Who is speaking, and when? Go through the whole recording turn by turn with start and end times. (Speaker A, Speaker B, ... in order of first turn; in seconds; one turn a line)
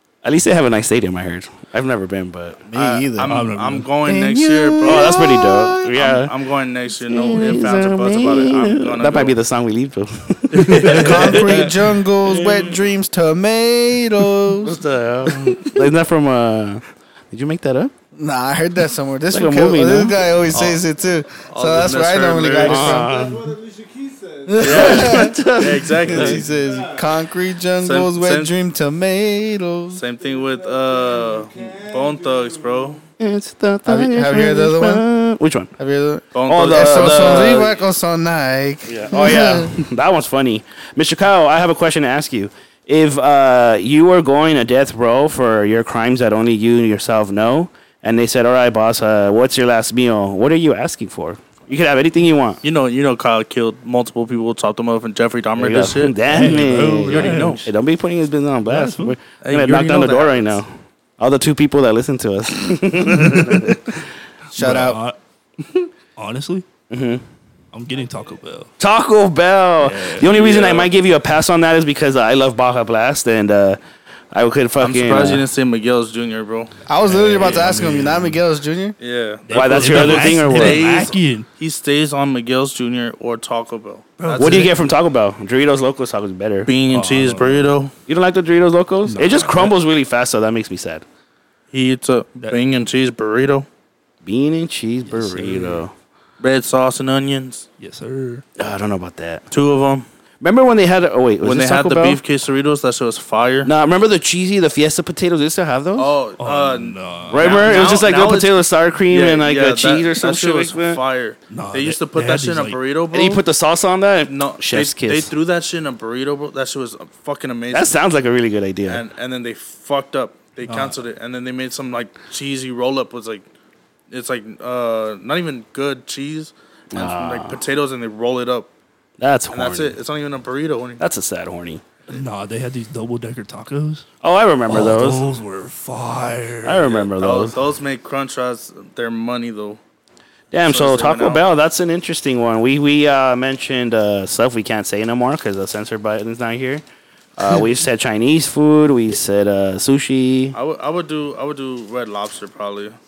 Speaker A: 0.2-2.6
Speaker B: 2.7-3.3
Speaker C: 2.7-9.4
Speaker D: 3.3-3.9
Speaker B: 4.1-5.7
Speaker A: 4.8-6.3
Speaker A: 7.1-11.1
Speaker C: 10.5-12.8
Speaker B: 10.9-14.8
Speaker D: 10.9-11.2
Speaker A: 14.7-17.9
Speaker C: 15.2-15.7
Speaker B: 18.1-23.2
Speaker A: 19.3-20.2
Speaker C: 21.5-23.1
Speaker A: 22.6-23.6
Speaker B: 24.4-30.0
Speaker C: 24.6-26.5
Speaker A: 24.6-26.4
Speaker C: 27.8-28.5
Speaker C: 29.9-33.0
Speaker A: 33.2-35.7
Speaker B: 33.9-35.0
Speaker B: 35.8-39.8
Speaker C: 36.3-37.8
Speaker A: 36.5-37.7
Speaker A: 38.9-52.6
Speaker C: 52.6-56.2
Speaker A: 55.6-64.0
Speaker D: 56.3-57.7
Speaker C: 57.1-57.7
Speaker D: 58.7-59.2
Speaker C: 59.4-60.6
Speaker D: 63.1-63.8
Speaker D: 64.5-65.2
Speaker B: 64.5-65.0
Speaker D: 66.2-66.7
Speaker A: 66.9-67.2
Speaker D: 67.7-68.7
Speaker A: 68.8-73.8
Speaker D: 69.8-70.9
Speaker A: 74.3-75.4
Speaker C: 74.8-76.7
Speaker B: 76.9-79.0
Speaker D: 77.0-78.4
Speaker C: 79.0-84.7
Speaker D: 79.5-81.5
Speaker A: 79.5-80.9
Speaker D: 84.2-84.7
Speaker A: 84.4-86.7
Speaker C: 86.7-87.9
Speaker D: 86.9-87.7
Speaker A: 88.1-91.0
Speaker D: 89.1-89.8
Speaker C: 91.7-93.7
Speaker A: 94.2-95.9
Speaker D: 95.1-95.8
Speaker C: 96.4-97.7
Speaker D: 97.8-98.4
Speaker A: 98.6-99.4
Speaker C: 99.5-100.1
Speaker A: 100.4-102.2
Speaker C: 101.4-103.7
Speaker A: 103.6-106.1
Speaker C: 106.0-108.6
Speaker D: 106.4-108.0
Speaker A: 107.3-111.0
Speaker C: 109.1-113.4
Speaker D: 111.5-112.8
Speaker A: 113.1-115.3
Speaker C: 114.3-118.0
Speaker A: 117.7-119.0
Speaker C: 118.9-123.5
Speaker D: 120.7-121.0
Speaker C: 124.1-128.7
Speaker A: 126.9-127.6
Speaker A: 129.2-130.0
Speaker C: 129.5-131.0
Speaker A: 131.0-131.8
Speaker D: 132.1-134.1
Speaker A: 134.2-135.2
Speaker D: 134.7-136.9
Speaker A: 136.6-137.6
Speaker C: 136.9-139.8
Speaker A: 140.5-146.8
Speaker C: 140.7-141.4
Speaker A: 147.4-150.6
Speaker C: 150.5-153.0